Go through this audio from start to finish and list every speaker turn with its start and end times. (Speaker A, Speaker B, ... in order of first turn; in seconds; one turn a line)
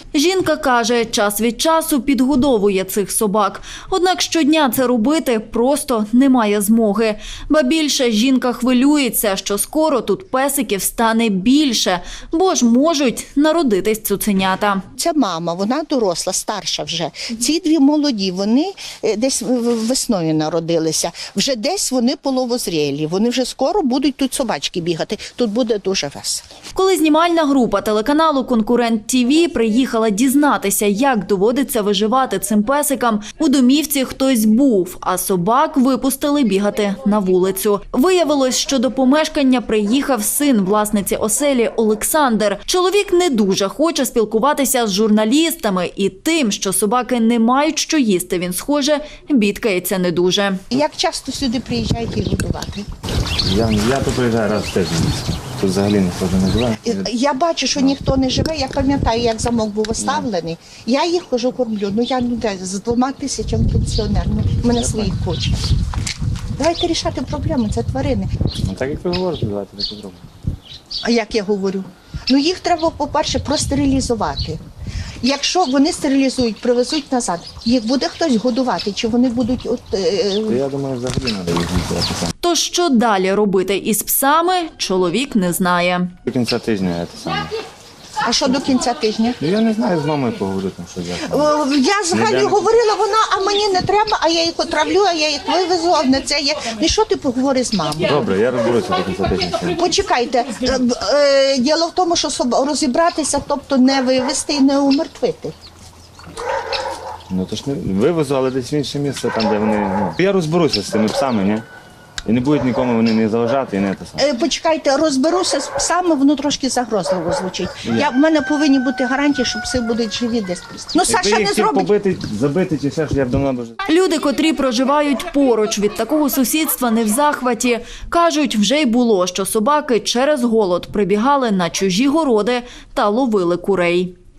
Speaker A: 0.1-14.8
Speaker B: 15.0-26.4
Speaker A: 26.7-50.6
Speaker B: 50.7-52.9
Speaker C: 53.4-57.1
Speaker B: 56.8-65.6
Speaker C: 60.0-60.3
Speaker C: 64.7-65.1
Speaker B: 66.6-68.3
Speaker C: 68.6-70.2
Speaker B: 71.0-74.6
Speaker B: 75.2-80.6
Speaker C: 80.5-82.3
Speaker A: 82.4-86.1
Speaker C: 86.2-87.5
Speaker B: 88.2-89.4
Speaker C: 89.4-91.5
Speaker B: 91.3-98.2
Speaker C: 92.1-92.8
Speaker C: 98.0-99.8
Speaker B: 99.8-105.5
Speaker C: 107.3-111.6
Speaker C: 112.3-114.3
Speaker B: 114.2-121.9
Speaker C: 117.8-118.1
Speaker C: 121.0-123.8
Speaker A: 123.9-134.2